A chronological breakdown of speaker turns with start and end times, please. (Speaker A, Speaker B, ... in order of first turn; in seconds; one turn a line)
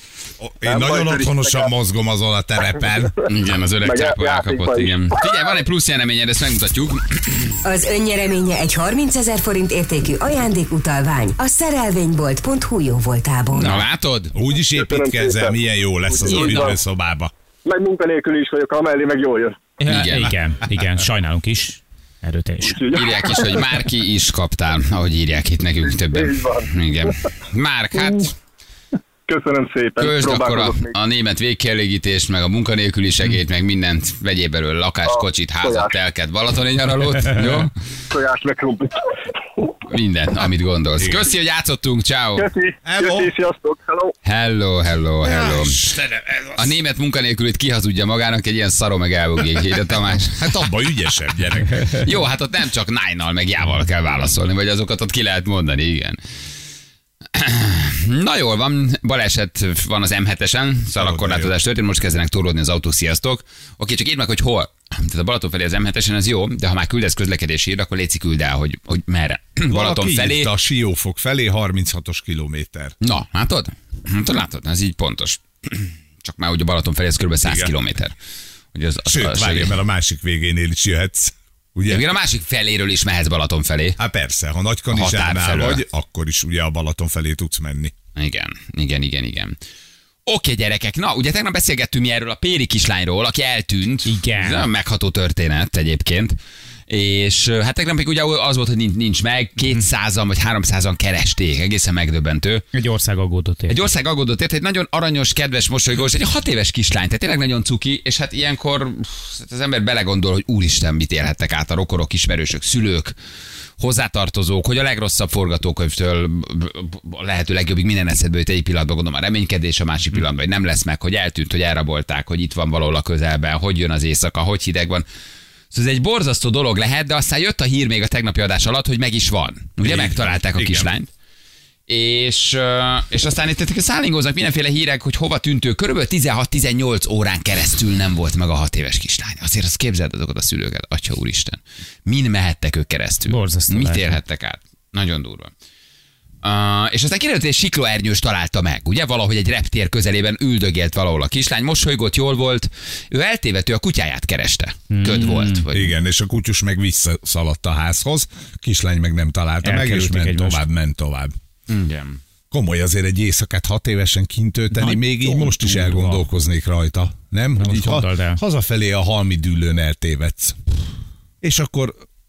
Speaker A: 0.4-3.3
Speaker B: 0.7-1.7
Speaker C: 3.3-7.6
Speaker B: 3.8-5.2
Speaker D: 7.6-13.8
Speaker C: 13.6-14.3
Speaker A: 14.3-17.3
Speaker B: 14.7-16.8
Speaker B: 17.6-19.6
Speaker E: 19.8-23.0
Speaker C: 19.9-20.3
Speaker B: 22.6-23.6
Speaker C: 22.9-28.3
Speaker B: 25.8-27.1
Speaker B: 29.3-30.9
Speaker C: 30.0-37.7
Speaker B: 35.0-36.0
Speaker B: 38.1-39.1
Speaker C: 39.9-42.5
Speaker A: 41.0-41.3
Speaker B: 42.4-44.1
Speaker A: 42.9-43.3
Speaker C: 44.2-45.8
Speaker A: 45.2-46.7
Speaker C: 46.6-50.6
Speaker A: 50.2-52.1
Speaker C: 51.8-56.2
Speaker C: 57.3-70.5
Speaker A: 61.0-61.5
Speaker A: 69.7-73.0
Speaker C: 73.0-78.2
Speaker A: 77.4-77.7
Speaker C: 78.8-79.8
Speaker A: 79.1-82.0
Speaker C: 81.9-84.0
Speaker A: 84.0-88.0
Speaker C: 84.9-85.8
Speaker C: 88.2-89.6
Speaker C: 90.3-96.4
Speaker E: 94.0-94.7
Speaker C: 96.9-102.7
Speaker E: 102.7-103.8
Speaker C: 103.7-113.1
Speaker C: 113.8-125.0
Speaker C: 125.7-131.1
Speaker A: 129.8-130.9
Speaker C: 131.9-145.5
Speaker E: 143.3-144.2
Speaker C: 146.4-155.9
Speaker E: 154.9-155.6
Speaker A: 155.7-161.3
Speaker E: 159.6-160.6
Speaker C: 161.7-162.2
Speaker A: 162.5-170.6
Speaker E: 164.7-166.3
Speaker E: 167.6-168.4
Speaker A: 171.4-172.0